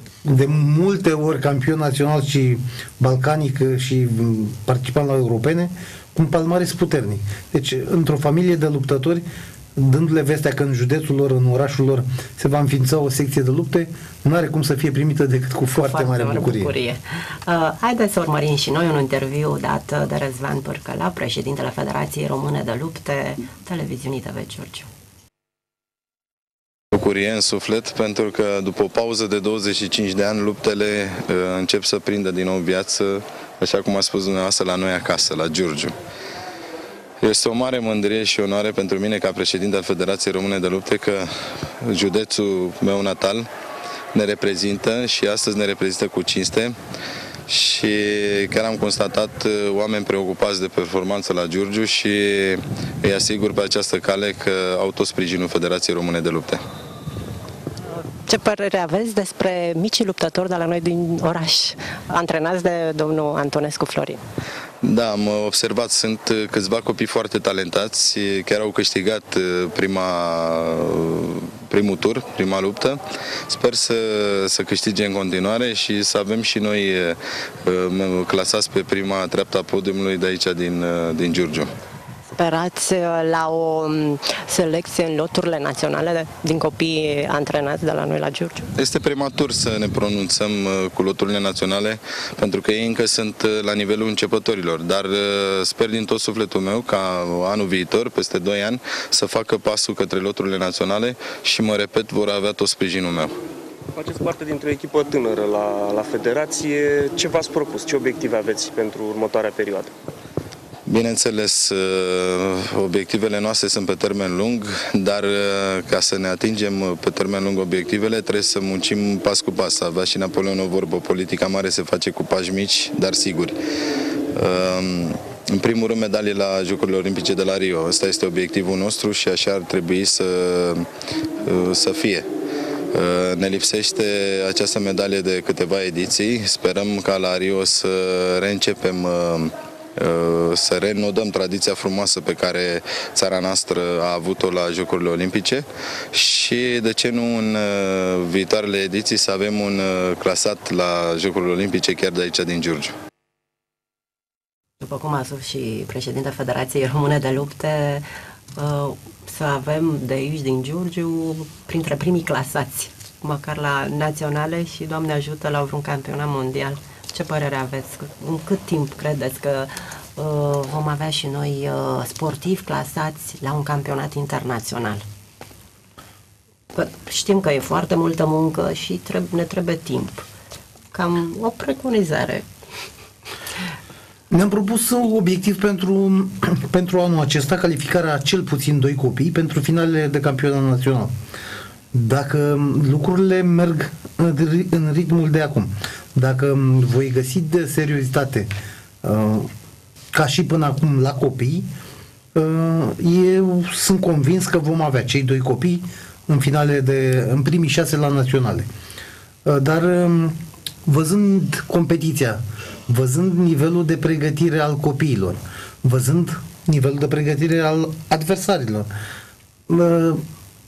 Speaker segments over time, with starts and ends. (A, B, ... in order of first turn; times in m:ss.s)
0:00.2-0:16.7 A
0:15.7-0:24.9 B
0:26.9-0:35.9 C
0:37.2-0:43.5 C
0:44.1-0:46.8 C
0:47.5-0:56.6 C
0:58.0-1:04.2 B
1:04.8-1:21.7 C
1:22.3-1:28.7 B
1:28.8-1:43.3 C
1:44.0-1:49.9 D
1:50.9-2:03.6 C
2:04.3-2:10.9 C
2:11.4-2:12.3 C
2:12.9-2:32.9 C
2:34.8-2:38.0 B
2:38.6-2:55.0 B
2:56.8-3:00.3 B
3:00.9-3:02.5 B
3:04.3-3:11.1 A
3:11.9-3:18.5 A
3:19.0-3:19.5 A
3:20.1-3:21.7 A
3:22.4-3:28.7 A
3:29.4-3:38.9 A
3:39.7-3:40.2 A